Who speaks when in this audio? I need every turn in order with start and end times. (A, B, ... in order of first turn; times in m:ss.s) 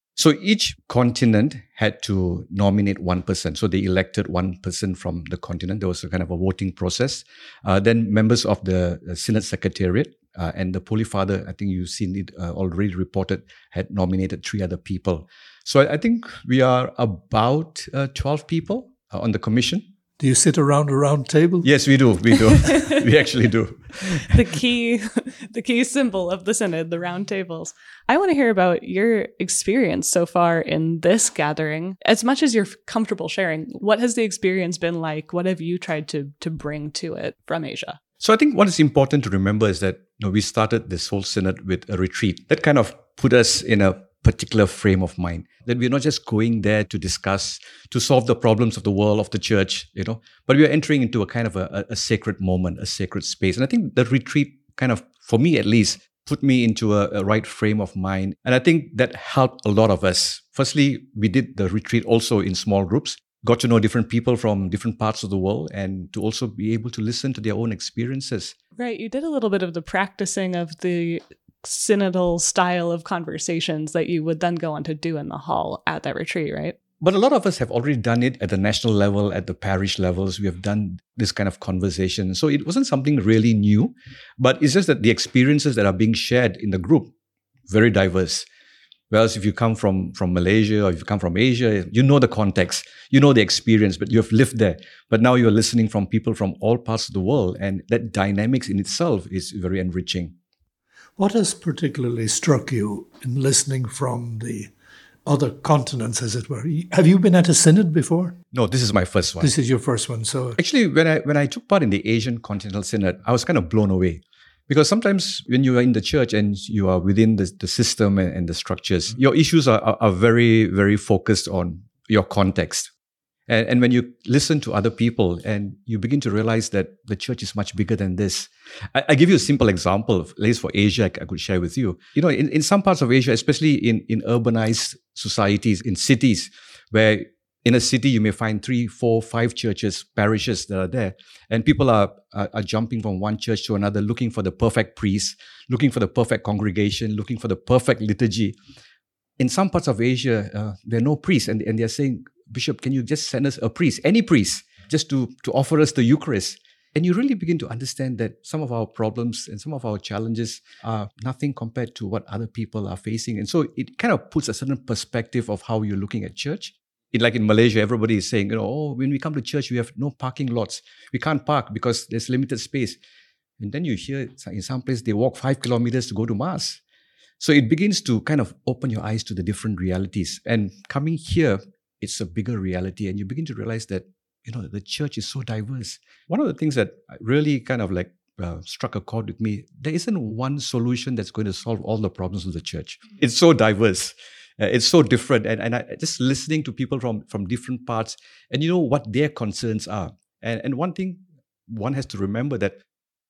0:00.2-0:19.8 A
0:20.2-0:21.7 B
0:21.6-0:24.4 A
0:22.6-0:22.9 C
0:24.3-0:38.0 C
0:38.2-1:08.5 A
1:08.8-1:16.8 C
1:17.0-1:27.1 A
1:27.7-1:28.4 A
1:29.1-1:40.3 A
1:41.2-1:44.7 B
1:45.2-1:48.4 B
1:48.5-1:49.5 A
1:49.4-1:50.6 B
1:50.6-2:02.9 A
2:03.5-2:28.6 A
2:29.4-2:53.0 A
2:53.6-2:56.8 A
2:57.4-3:22.8 A